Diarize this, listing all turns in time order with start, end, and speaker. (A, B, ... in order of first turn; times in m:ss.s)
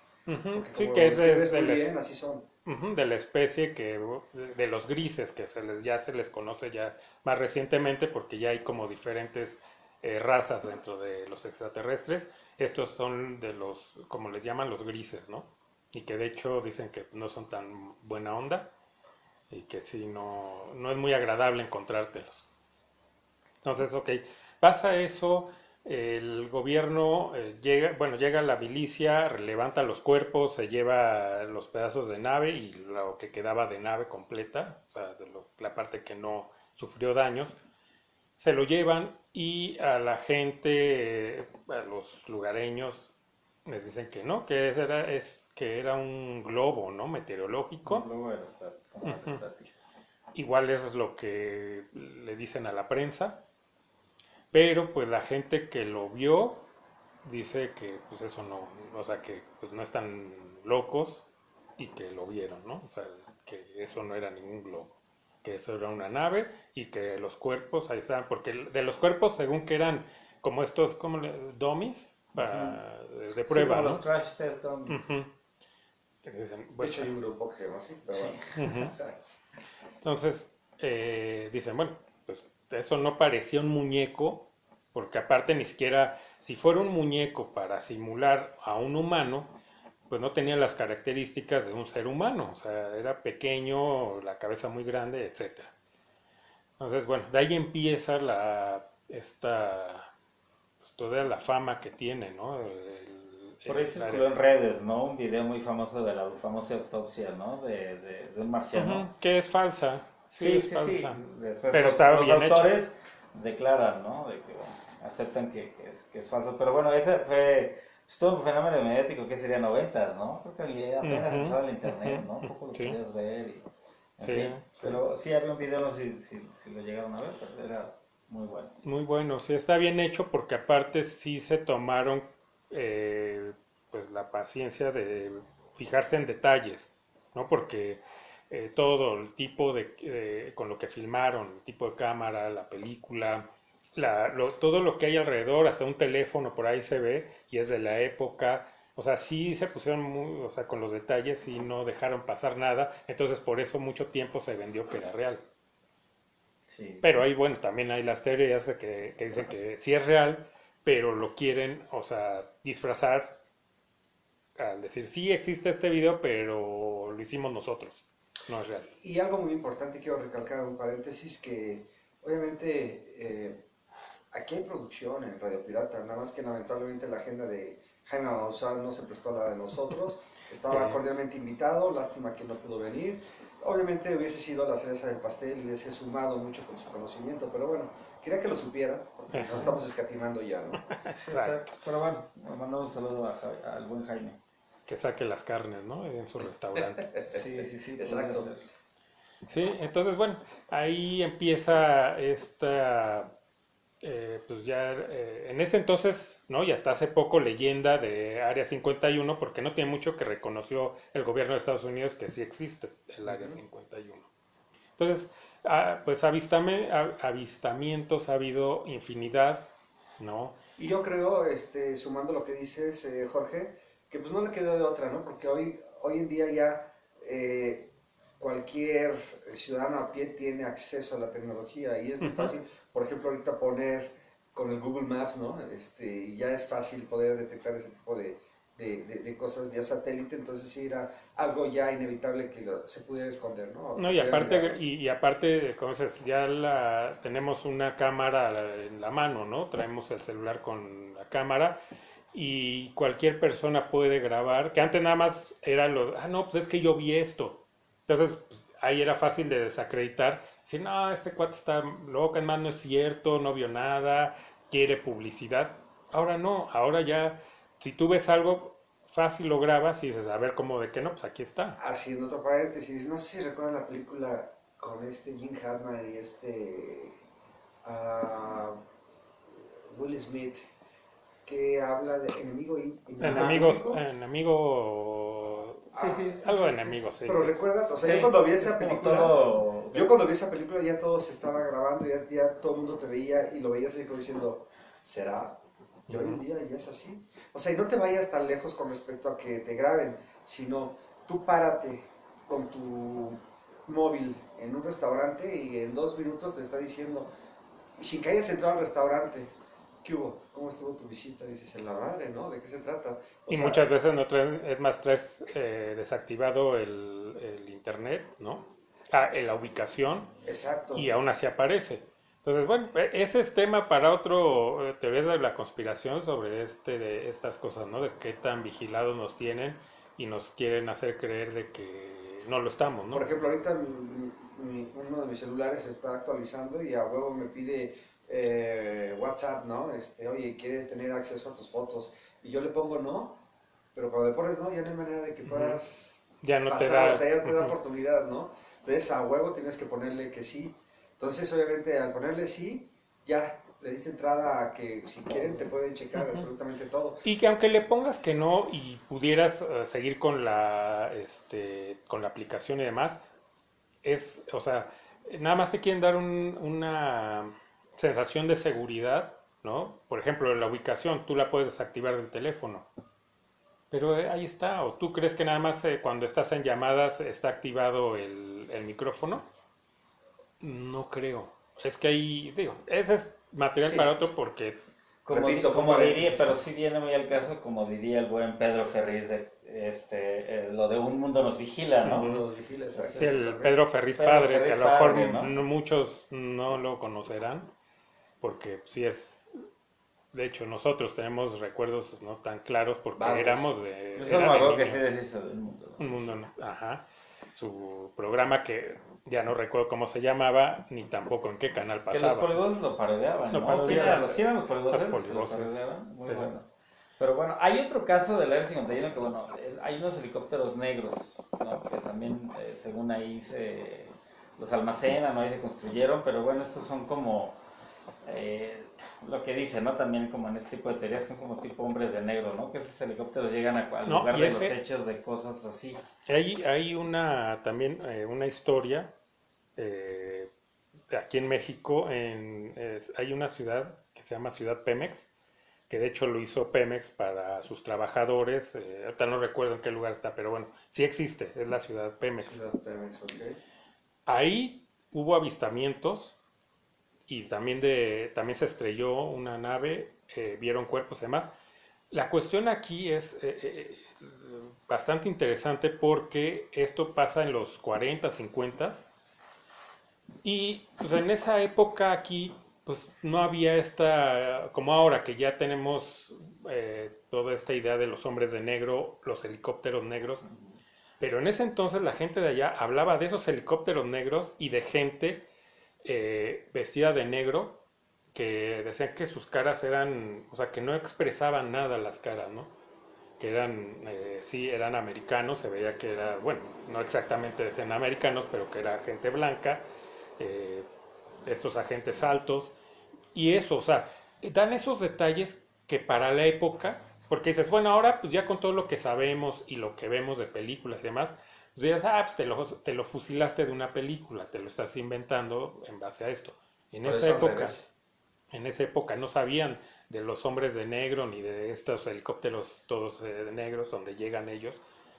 0:00.3-0:01.9 A
0:00.5-0:02.5 B
0:02.7-0:18.7 A
0:19.5-0:22.5 A
0:23.6-0:37.6 A
0:38.4-0:43.1 A
0:43.7-0:48.1 A
0:47.8-0:49.7 C
0:49.0-0:49.4 A
0:50.3-0:53.4 A
0:54.5-0:56.6 A
0:57.2-1:01.3 A
1:01.8-1:14.0 A
1:12.4-1:12.8 C
1:13.5-1:15.1 C
1:14.9-1:15.3 A
1:16.2-1:17.1 A
1:16.8-1:19.2 B
1:18.1-1:18.4 C
1:18.6-1:18.9 A
1:20.0-1:29.5 A
1:30.1-1:35.7 A
1:36.8-1:40.1 A
1:40.8-1:44.4 A
1:43.7-1:49.1 C
1:48.8-1:51.2 A
1:50.3-2:03.7 C
1:51.7-1:52.7 A
2:01.0-2:03.0 A
2:04.2-2:08.7 C
2:04.2-2:05.0 A
2:08.8-2:35.4 A
2:36.7-2:37.1 C
2:37.0-2:43.4 A
2:44.6-2:48.9 A
2:49.0-2:53.6 B
2:54.3-3:10.8 B
3:00.7-3:01.0 A
3:09.3-3:09.8 A
3:11.0-3:11.7 A
3:11.1-3:14.4 C
3:14.9-3:17.2 A
3:17.0-3:18.5 B
3:17.3-3:18.7 C
3:19.5-3:23.3 A
3:24.0-3:34.3 A
3:33.2-3:33.6 B
3:35.0-3:39.6 A
3:40.2-3:40.6 A
3:40.8-4:04.8 B
3:52.2-3:52.5 A
4:04.0-4:11.8 A
4:12.3-4:31.8 A
4:31.8-4:37.2 B
4:37.8-4:38.8 B
4:39.6-4:40.7 B
4:41.5-4:44.0 B
4:43.2-4:45.9 A
4:45.9-4:55.6 B
4:46.0-4:46.6 C
4:46.4-4:47.6 A
4:48.0-4:50.1 C
4:56.1-4:56.4 A
4:56.1-5:07.3 B
5:08.0-5:09.5 B
5:10.0-5:13.9 B
5:13.5-5:20.3 A
5:20.4-5:21.2 B
5:20.9-5:33.3 A
5:33.1-5:43.4 B
5:43.9-5:57.2 B
5:45.5-5:45.8 A
5:46.4-5:47.8 A
5:57.2-6:03.2 A
6:04.0-6:12.9 A
6:13.9-6:19.5 A
6:20.6-6:24.8 A
6:23.8-6:24.1 B
6:25.2-6:32.4 C
6:25.3-6:26.5 B
6:32.0-6:32.4 A
6:32.1-6:33.8 B
6:32.9-6:33.4 C
6:33.2-6:37.7 A
6:34.1-6:35.5 C
6:38.4-6:39.5 A
6:40.3-6:45.0 A
6:43.2-6:43.7 B
6:44.2-6:46.5 C
6:46.0-6:52.5 A
6:52.1-6:56.7 C
6:53.5-6:56.5 A
6:57.2-7:07.6 C
7:08.2-7:16.0 C
7:14.0-7:14.8 A
7:16.3-7:19.1 A
7:19.8-7:20.5 A
7:21.1-7:25.3 A
7:25.9-7:32.6 A
7:32.4-7:33.6 B
7:34.3-7:36.4 A
7:37.3-7:41.5 A
7:42.1-7:49.1 A
7:50.4-8:00.4 A
8:00.4-8:00.8 C
8:01.2-8:05.5 A
8:06.0-8:07.8 A
8:08.3-8:12.7 A
8:13.4-8:19.8 A
8:20.4-8:20.9 A
8:21.4-8:22.7 A
8:23.3-8:37.8 A
8:37.0-8:37.8 B
8:38.5-8:44.8 A